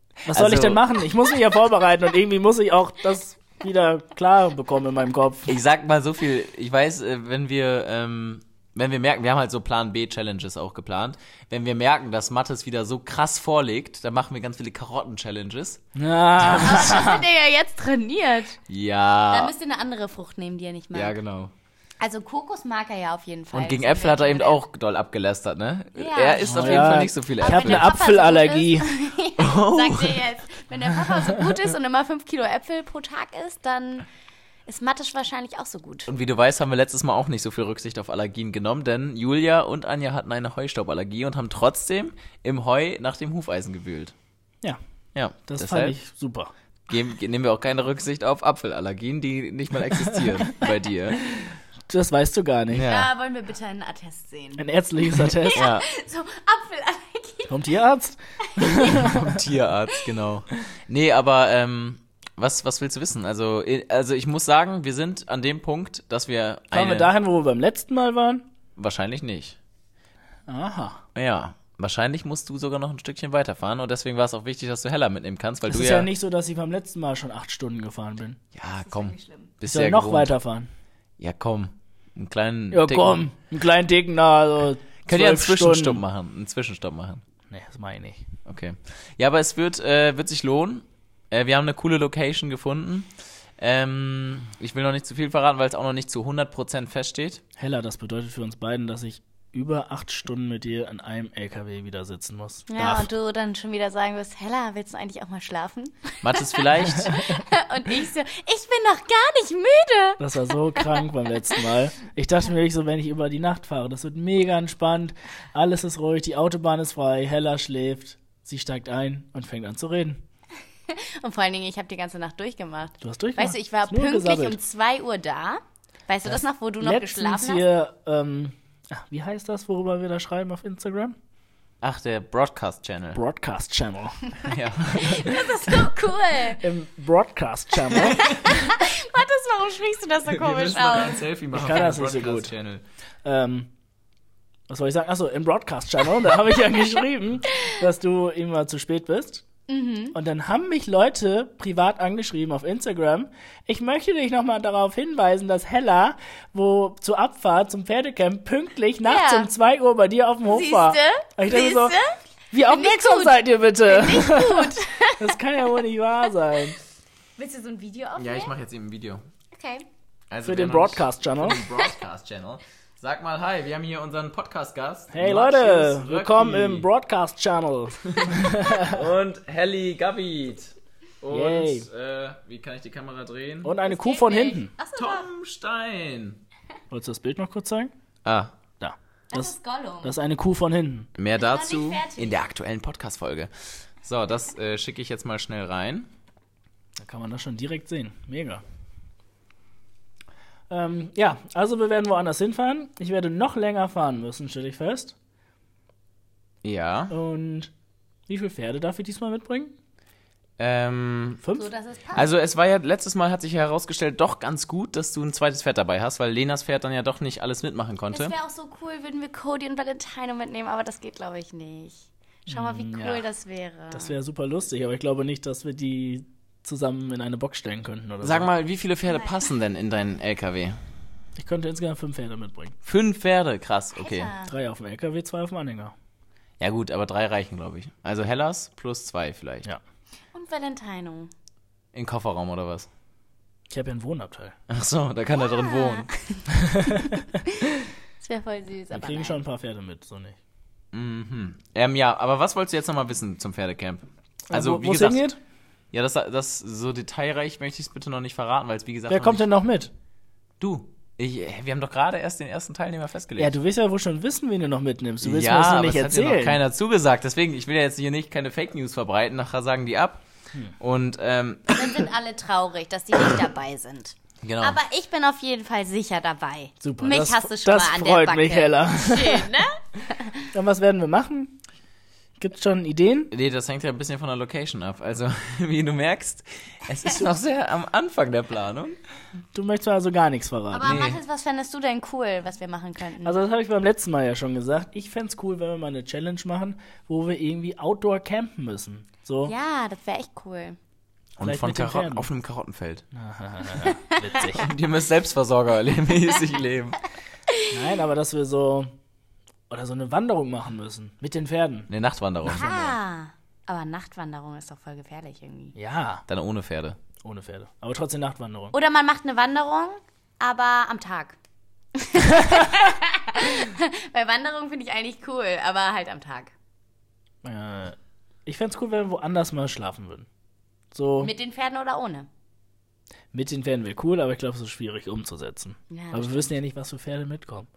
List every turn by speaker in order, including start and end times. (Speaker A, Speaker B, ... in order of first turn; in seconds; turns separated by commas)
Speaker A: 0.2-5.5, Speaker B: 0.3-0.8, Speaker B: 5.5-15.8, Speaker A: 15.9-17.2, Speaker B: 16.4-16.9, Speaker C: 16.5-18.6, Speaker B: 18.7-19.5, Speaker C: 19.3-21.1, Speaker B: 20.9-21.5, Speaker C: 22.0-24.6, Speaker B: 23.5-27.9, Speaker C: 26.0-34.0, Speaker A: 26.4-28.9, Speaker B: 29.4-30.2, Speaker C: 34.7-36.1, Speaker B: 36.1-44.1, Speaker B: 45.1-46.0, Speaker A: 45.5-46.5, Speaker B: 46.9-51.4, Speaker A: 51.9-52.9, Speaker B: 52.7-53.1, Speaker C: 52.8-57.6, Speaker A: 54.6-55.6, Speaker B: 55.5-55.8, Speaker A: 57.5-59.4, Speaker C: 58.5-59.2, Speaker B: 58.8-67.1, Speaker A: 66.7-68.5, Speaker B: 68.8-69.6, Speaker A: 70.5-71.0, Speaker B: 71.1-76.1, Speaker A: 75.7-78.4, Speaker B: 78.5-80.3, Speaker C: 78.8-79.5, Speaker A: 79.6-80.7, Speaker B: 81.2-83.3, Speaker A: 82.7-86.0, Speaker B: 85.0-87.2, Speaker A: 87.5-88.2, Speaker B: 88.5-97.4, Speaker A: 97.6-103.0, Speaker C: 102.7-110.2, Speaker B: 106.2-107.2, Speaker A: 110.2-120.2, Speaker C: 110.8-111.6, Speaker C: 120.9-127.6, Speaker A: 123.0-124.6, Speaker A: 126.2-131.2, Speaker B: 131.8-133.2, Speaker A: 133.1-134.2, Speaker B: 134.4-135.3, Speaker C: 134.9-136.7, Speaker A: 134.9-135.4, Speaker A: 136.6-138.3, Speaker C: 137.9-141.2, Speaker B: 138.0-138.4, Speaker B: 140.2-142.8, Speaker A: 141.5-142.5, Speaker A: 143.2-143.7, Speaker A: 144.7-149.4, Speaker C: 149.7-150.2, Speaker A: 150.1-162.0, Speaker C: 159.0-159.5, Speaker C: 160.5-165.4, Speaker A: 162.5-166.8, Speaker C: 167.4-168.5, Speaker B: 168.2-169.2, Speaker C: 169.5-169.9, Speaker B: 170.3-176.9, Speaker A: 170.4-171.6, Speaker A: 175.1-179.0, Speaker B: 178.0-183.7, Speaker A: 181.3-181.9, Speaker A: 183.6-184.7, Speaker C: 183.8-185.3, Speaker B: 184.9-186.4, Speaker A: 186.9-187.9, Speaker B: 188.2-188.5, Speaker A: 188.8-191.1, Speaker C: 189.3-190.1, Speaker B: 191.2-193.5, Speaker C: 191.3-192.4, Speaker B: 194.0-196.1, Speaker A: 197.0-198.6, Speaker A: 200.7-205.1, Speaker B: 206.6-207.2, Speaker A: 207.1-207.7, Speaker A: 208.3-209.7, Speaker B: 210.6-211.4, Speaker A: 211.4-211.7, Speaker C: 211.5-212.3, Speaker B: 212.1-218.3, Speaker C: 218.1-224.1, Speaker A: 222.5-223.2, Speaker A: 223.9-228.5, Speaker B: 228.2-230.8, Speaker C: 229.1-229.4, Speaker A: 231.3-232.8, Speaker B: 232.8-234.3, Speaker C: 233.9-234.5, Speaker A: 234.4-235.9, Speaker B: 236.6-239.7, Speaker C: 240.3-241.3, Speaker B: 241.9-242.9, Speaker A: 243.7-244.6, Speaker B: 244.7-246.1, Speaker C: 245.3-246.4, Speaker A: 246.5-247.4, Speaker C: 247.5-249.4, Speaker A: 248.9-250.4, Speaker B: 250.9-255.3, Speaker A: 254.5-255.4, Speaker B: 255.9-259.4, Speaker A: 259.1-259.9, Speaker B: 260.6-263.5, Speaker A: 263.4-266.6, Speaker B: 265.2-270.2, Speaker B: 270.8-271.8, Speaker C: 271.7-280.5, Speaker B: 274.4-274.8, Speaker A: 276.8-279.5, Speaker A: 280.5-281.6, Speaker A: 282.4-283.3, Speaker B: 283.3-289.0, Speaker A: 289.5-291.0, Speaker C: 290.7-293.4, Speaker B: 290.8-291.2, Speaker A: 293.2-299.5, Speaker C: 299.4-300.8, Speaker B: 301.4-303.0, Speaker A: 301.4-302.3, Speaker A: 303.1-304.7, Speaker C: 303.8-304.5, Speaker B: 304.4-307.0, Speaker A: 307.7-308.9, Speaker A: 309.7-311.9, Speaker B: 311.9-312.9, Speaker C: 312.4-315.7, Speaker A: 315.8-316.2, Speaker B: 316.3-317.0, Speaker A: 317.2-318.7, Speaker C: 318.7-321.4, Speaker C: 321.9-326.5, Speaker A: 327.4-330.3, Speaker A: 330.9-331.3, Speaker C: 331.2-332.3, Speaker A: 333.3-337.7, Speaker C: 335.9-336.5